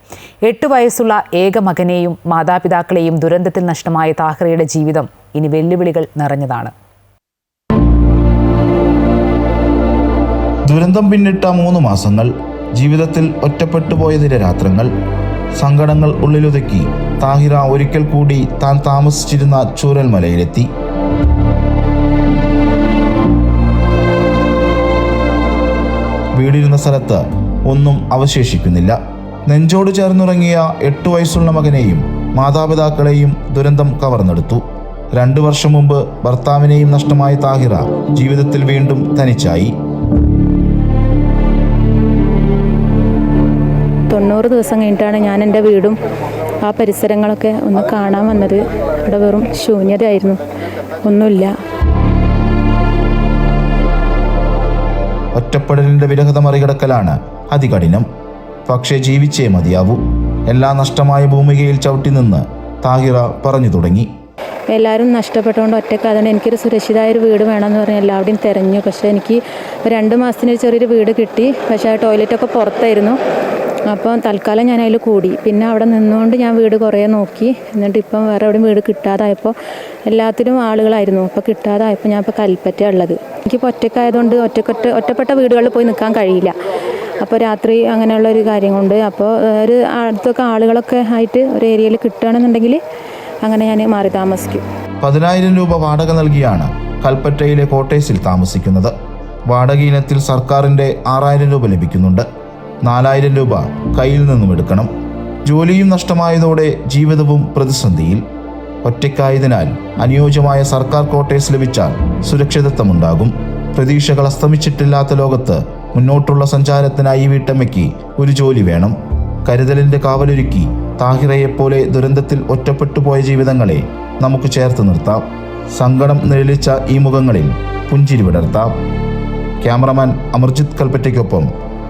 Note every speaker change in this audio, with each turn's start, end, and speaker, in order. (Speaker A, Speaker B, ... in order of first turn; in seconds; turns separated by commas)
Speaker A: 0.4-6.7, Speaker B: 10.7-14.9, Speaker B: 15.5-20.7, Speaker B: 26.3-34.6, Speaker B: 35.1-39.7, Speaker C: 44.1-46.0, Speaker C: 46.6-50.4, Speaker C: 51.0-51.5, Speaker B: 55.3-58.0, Speaker B: 58.7-64.1, Speaker C: 64.7-73.2, Speaker C: 73.9-79.5, Speaker C: 80.1-86.5, Speaker C: 87.2-92.8, Speaker C: 93.4-94.6, Speaker B: 95.0-98.9, Speaker B: 99.5-102.2, Speaker B: 102.8-104.9, Speaker B: 105.5-108.2, Speaker B: 108.8-128.7, Speaker B: 129.6-131.5